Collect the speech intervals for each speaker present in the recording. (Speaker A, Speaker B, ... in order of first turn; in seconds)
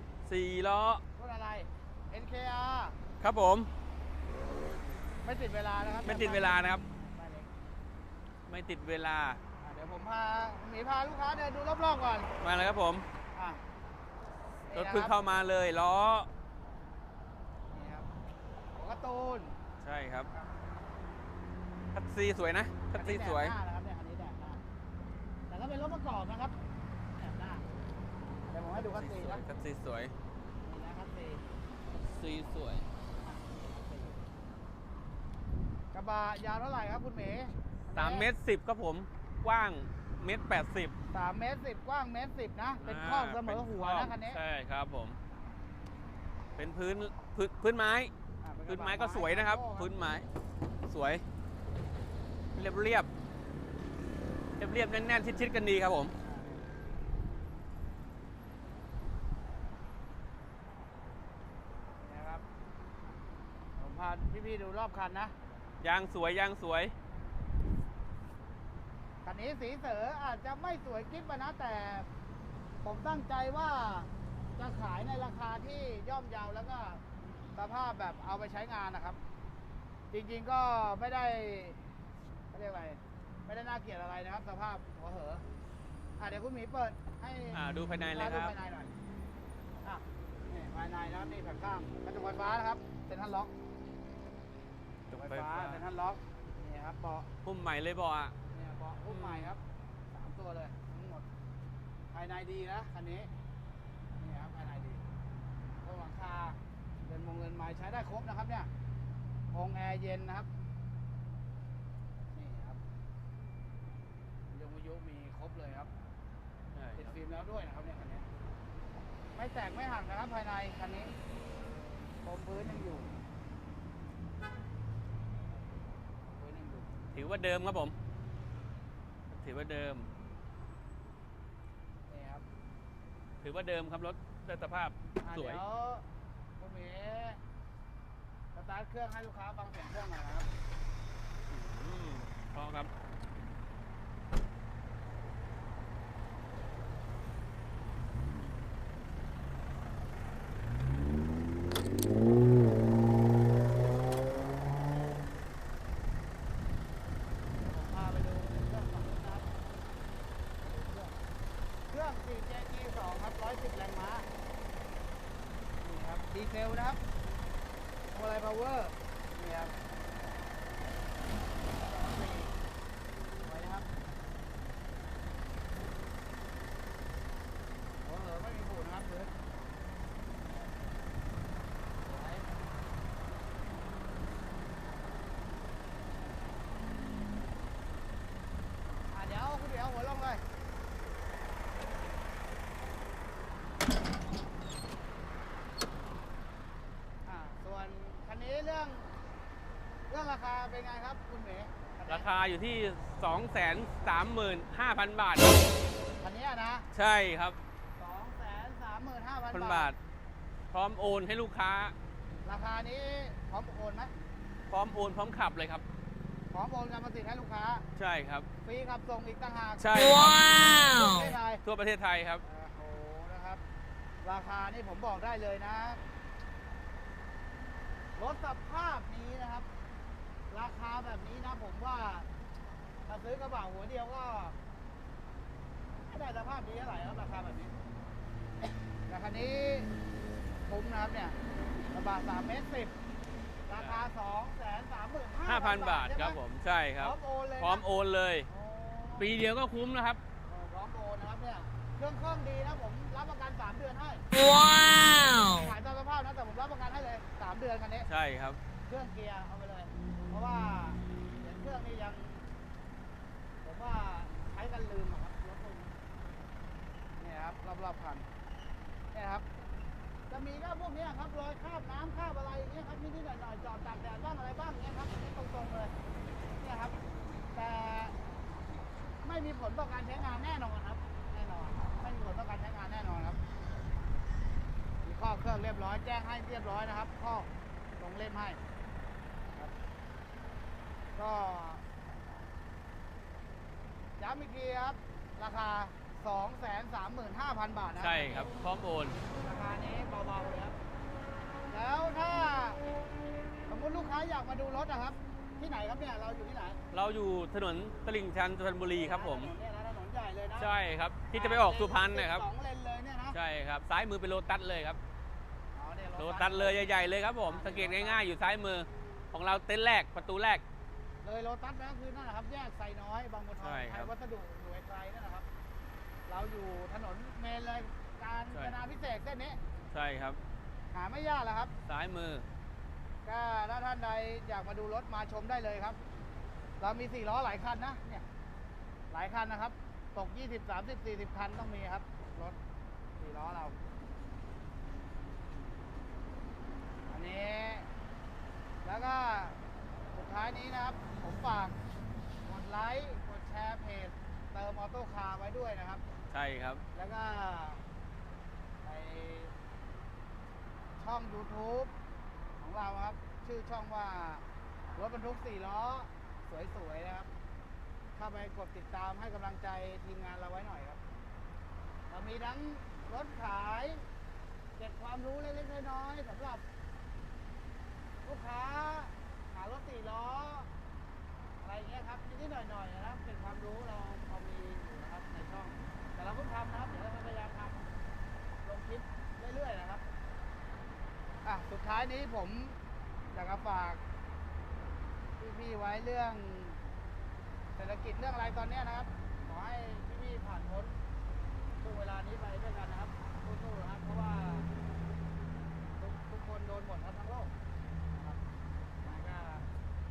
Speaker A: 0.2-1.0, 3.2-3.7, 6.0-6.8, 8.5-9.4, 12.4-13.1, 14.7-16.3, 19.8-20.3, 21.9-23.5, 28.7-30.1, 32.0-32.9, 37.9-40.9, 42.8-45.2, 46.5-48.1, 48.7-50.2, 50.9-51.2, 52.5-53.1, 54.6-56.1, 65.8-66.9, 87.5-88.5, 95.1-95.8, 97.4-98.3, 99.1-99.5, 116.7-117.1, 127.1-127.9, 129.3-130.1, 133.4-135.6, 141.5-142.9, 202.1-205.6, 206.9-207.6, 209.5-209.9, 210.7-211.9, 214.7-215.8, 217.9-218.5, 219.8-222.4, 243.7-244.0, 245.4-248.5, 249.2-250.2, 258.1-258.6, 298.0-299.2, 306.9-309.5, 310.6-312.4, 313.3-315.0, 316.2-320.6, 323.6-324.1, 329.9-330.4, 331.9-332.4, 356.3-356.8
Speaker B: 1.1-3.0, 5.2-7.5, 9.6-12.3, 13.3-13.6, 14.7-15.1, 17.7-18.1, 18.8-19.6, 22.9-24.6, 25.5-26.5, 27.1-27.6, 28.5-29.4, 30.6-31.4, 33.2-34.2, 35.9-38.3, 41.1-44.4, 48.4-49.9, 56.2-56.6, 62.0-62.4, 63.8-65.3, 69.2-72.1, 72.8-77.0, 77.5-79.2, 80.1-81.8, 82.5-85.4, 86.2-88.9, 89.8-93.5, 95.1-97.3, 98.5-99.6, 100.1-101.3, 102.1-103.3, 104.2-105.0, 105.8-108.7, 109.5-110.5, 112.3-112.8, 114.5-115.9, 117.0-118.2, 119.3-121.1, 122.2-123.1, 126.3-126.9, 132.1-132.4, 135.2-136.0, 136.6-137.4, 138.5-140.5, 157.6-159.5, 160.6-161.1, 161.9-164.3, 165.8-167.0, 168.1-169.8, 171.8-172.6, 173.4-173.9, 178.0-179.3, 182.0-182.5, 189.1-190.4, 197.2-199.1, 200.1-202.3, 206.2-206.9, 208.0-209.9, 212.4-214.1, 216.5-217.8, 218.6-221.6, 222.4-223.6, 224.2-226.0, 228.2-229.7, 230.5-232.3, 233.1-234.6, 236.1-237.7, 239.1-239.9, 240.7-241.4, 241.9-242.9, 243.7-246.4, 247.0-247.8, 248.5-249.3, 250.4-254.3, 255.0-258.1, 258.9-262.4, 263.6-265.9, 267.2-268.3, 269.1-269.4, 270.3-275.9, 276.6-277.0, 277.5-278.1, 279.2-283.4, 285.0-288.6, 291.1-291.8, 294.2-298.6, 299.2-300.8, 301.7-302.8, 303.7-306.8, 308.9-310.7, 311.3-313.4, 315.7-316.8, 317.4-318.2, 321.2-325.4, 326.3-329.6, 330.9-331.7, 333.2-336.0, 336.8-338.2, 339.1-342.6, 343.2-343.8, 347.1-347.9, 348.8-349.6, 350.1-351.8, 352.4-356.0, 356.9-357.8, 358.8-359.5, 361.0-361.9, 362.6-367.3, 368.1-371.0, 372.1-374.0, 374.8-376.6, 378.2-380.7, 381.6-387.8, 388.6-390.0, 391.4-392.8, 393.3-394.0, 395.4-396.8, 397.8-401.0, 401.8-404.7, 406.0-407.5, 408.1-408.4, 409.0-409.7